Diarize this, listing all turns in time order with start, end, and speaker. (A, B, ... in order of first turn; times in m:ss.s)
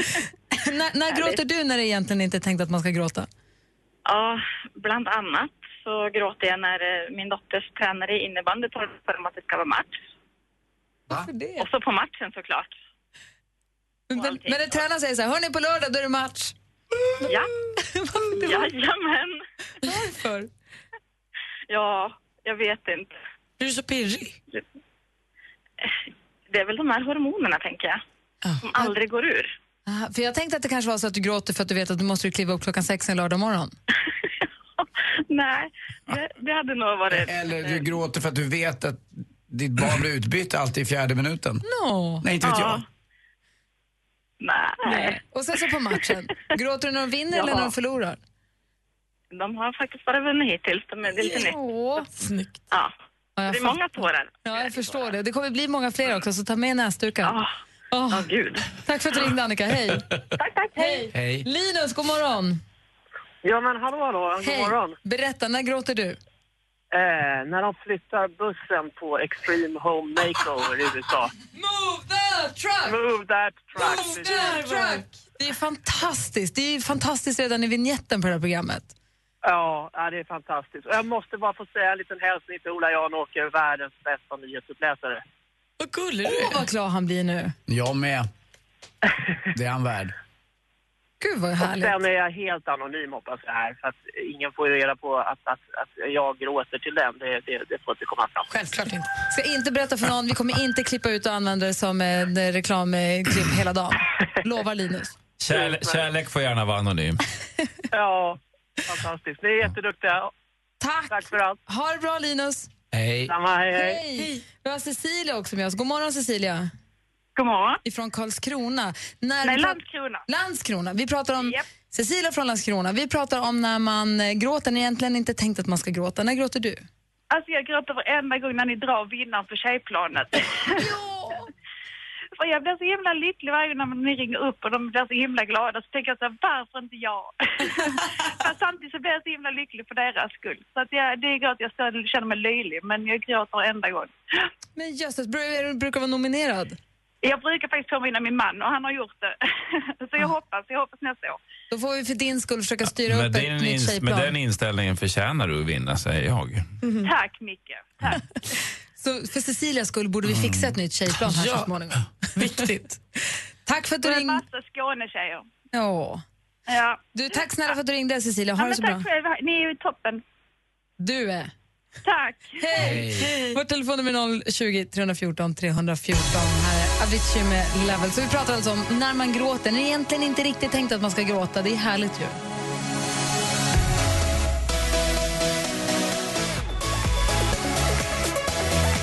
0:00.5-0:03.3 A
0:01.1-0:01.4 B
0:04.1-0:10.0 B
0:11.1-0:11.7 A
0:11.6-0:12.8 B
0:14.1-0:16.5 A
0:14.1-0:14.8 B
0:17.2-0:17.5 B
0:17.8-0:18.7 A
0:18.4-0:19.4 B
0:19.8-0:20.5 A
0:21.7-0:23.2 B
0:23.6-0:24.4 C
0:26.5-0:28.0 B
0:28.6-0:29.5 B
0:29.9-0:33.7 A
0:34.8-0:37.9 B
0:37.2-0:41.6 D
0:41.6-0:42.3 A
0:42.2-0:42.8 D
0:42.4-0:42.8 B
0:44.4-0:45.2 B
0:44.9-0:48.2 A
0:47.3-0:47.7 B
0:49.3-0:51.6 B
0:51.2-0:52.1 A
0:52.2-0:52.6 C
0:53.4-0:53.8 A
0:53.5-0:55.1 B
0:54.4-0:57.4 A
0:57.2-0:57.5 B
0:57.9-1:00.0 A
0:58.1-0:58.7 B
1:00.4-1:01.0 B
1:00.8-1:02.6 A
1:01.1-1:01.5 D
1:03.4-1:05.0 E
1:04.4-1:06.2 A
1:06.9-1:11.3 E
1:11.6-1:13.0 A
1:12.8-1:14.8 E
1:13.8-1:18.9 A
1:19.4-1:25.2 E
1:25.8-1:26.7 C
1:26.2-1:27.6 A
1:27.7-1:28.3 D
1:29.5-1:30.1 D
1:31.2-1:32.0 A
1:31.6-1:38.5 E
1:38.5-1:39.1 C
1:39.3-1:45.2 A
1:45.4-1:47.2 F
1:45.5-1:46.0 E
1:47.9-1:50.3 E
1:50.8-1:52.7 A
1:51.1-1:51.6 E
1:52.9-1:53.3 D
1:53.3-1:54.1 E
1:53.7-1:56.7 A
1:57.4-1:57.8 B
1:57.8-2:06.8 A
1:59.4-2:00.2 B
2:07.3-2:10.9 B
2:10.7-2:11.5 A
2:12.4-2:24.1 B
2:24.8-2:26.8 A
2:27.2-2:31.4 B
2:31.7-2:34.3 A
2:33.0-2:36.7 F
2:37.0-2:38.2 B
2:39.0-2:42.0 A
2:40.3-2:40.8 D
2:41.2-2:41.7 C
2:42.4-2:43.0 C
2:43.7-2:44.4 A
2:44.0-2:45.5 B
2:45.7-2:46.2 A
2:46.7-2:47.0 B
2:47.2-2:49.1 A
2:48.6-2:50.2 B
2:51.0-2:51.5 A
2:52.0-2:52.8 B
2:52.6-3:02.4 A
2:52.8-2:53.3 D